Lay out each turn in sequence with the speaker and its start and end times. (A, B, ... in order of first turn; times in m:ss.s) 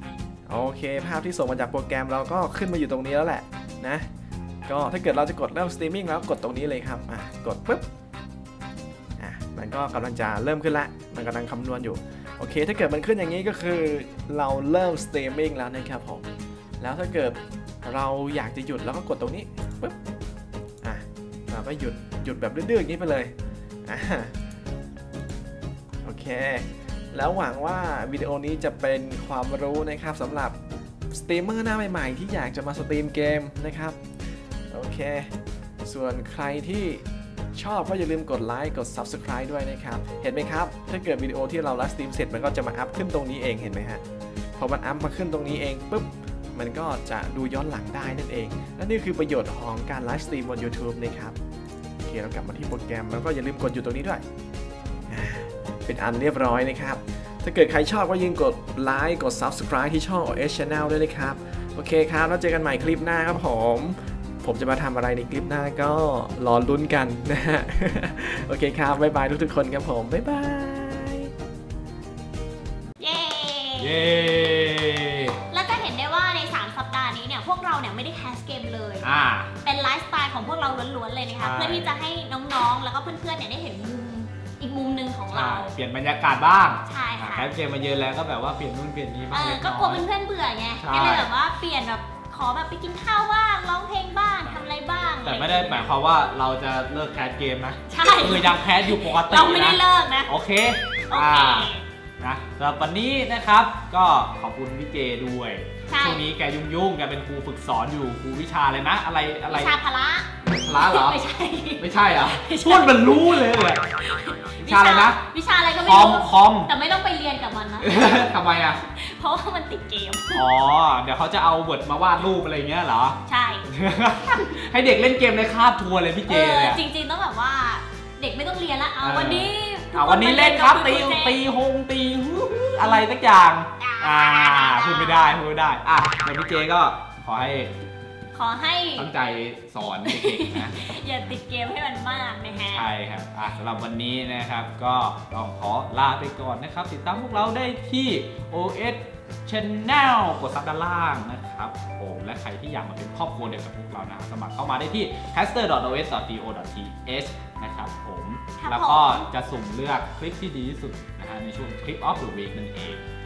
0:00.4-0:04.1 A
0:04.6-0:07.8 A
0:09.2-0:16.3 A
0:16.8-0:20.0 A
0:20.8-0:23.3 A
0:23.8-0:24.3 A
0:26.0-0:30.6 A
0:31.1-0:34.0 A
0:34.7-0:35.3 A
0:35.8-0:44.0 A
0:44.6-0:51.4 A
0:52.0-0:54.2 A
0:55.1-1:11.3 A
1:13.0-1:14.1 B
1:13.8-1:15.4 C
1:15.5-1:19.0 B
1:19.0-1:19.5 C
1:19.6-1:25.7 B
1:21.4-1:21.9 C
1:25.3-1:30.0 C
1:26.8-1:27.5 B
1:29.3-1:35.9 B
1:30.8-1:31.3 C
1:35.2-1:49.7 C
1:37.9-1:40.3 B
1:41.1-1:41.8 B
1:45.9-1:46.2 B
1:49.5-2:00.4 B
1:50.5-1:51.2 C
1:51.8-1:53.9 C
1:54.6-1:55.2 C
1:55.8-1:56.7 C
1:57.8-1:58.8 C
2:00.3-2:06.8 C
2:03.2-2:03.7 B
2:04.2-2:04.5 B
2:06.3-2:11.4 B
2:09.0-2:17.7 C
2:13.8-2:15.4 B
2:18.3-2:19.1 B
2:19.0-2:21.0 C
2:20.1-2:22.9 B
2:22.7-2:43.0 C
2:38.6-2:39.2 B